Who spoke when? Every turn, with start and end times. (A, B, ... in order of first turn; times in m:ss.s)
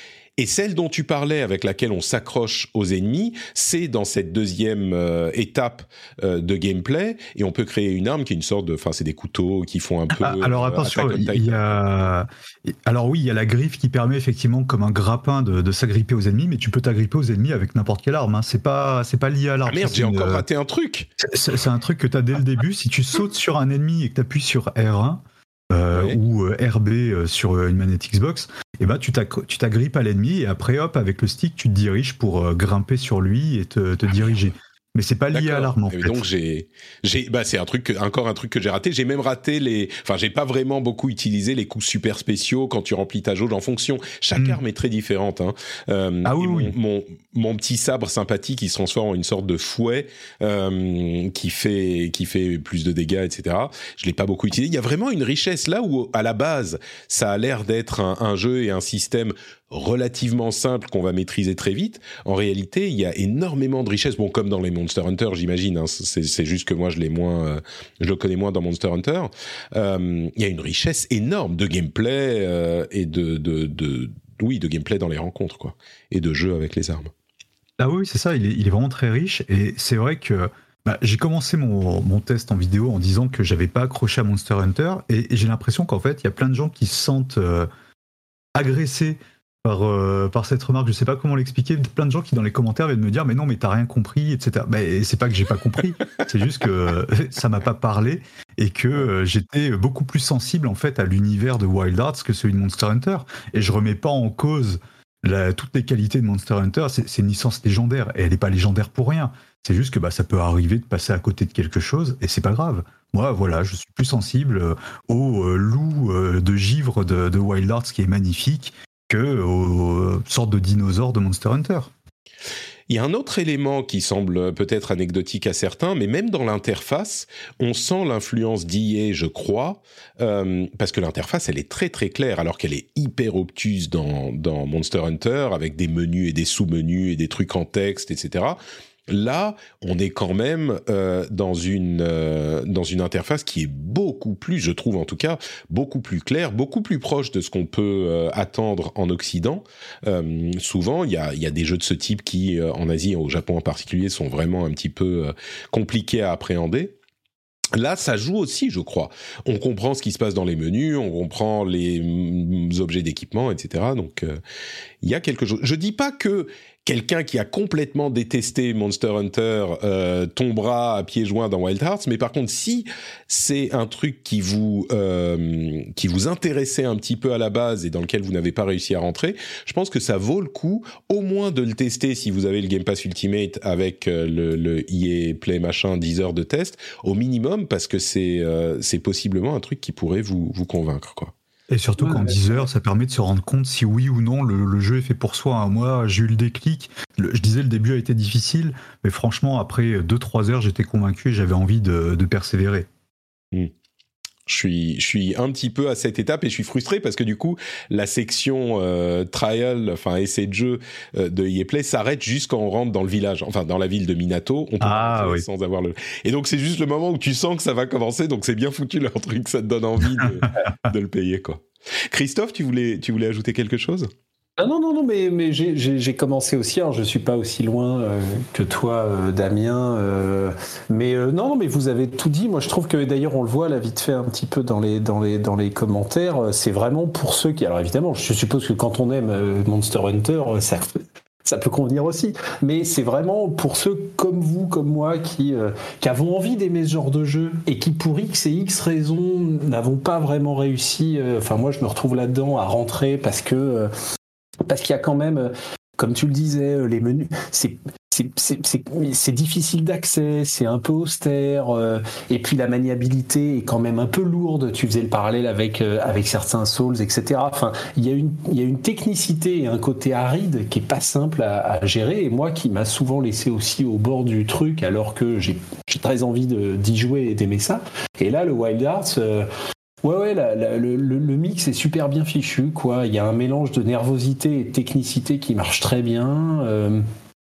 0:00.4-0:11.8 A
0:10.2-0:20.4 B
0:19.7-0:21.1 A
0:21.3-0:36.2 B
0:25.9-0:26.2 A
0:35.3-1:17.1 A
0:44.4-0:44.6 B
0:46.2-0:46.7 B
1:17.8-1:27.7 B
1:28.6-2:01.9 B
2:02.9-2:37.0 A
2:37.7-2:44.4 A
2:45.0-3:11.3 A
3:11.7-3:22.9 B
3:12.0-3:12.4 C
3:24.5-3:44.1 A
3:34.8-3:35.4 B
3:44.6-4:13.9 C
4:14.7-4:39.5 C
4:40.0-4:47.0 C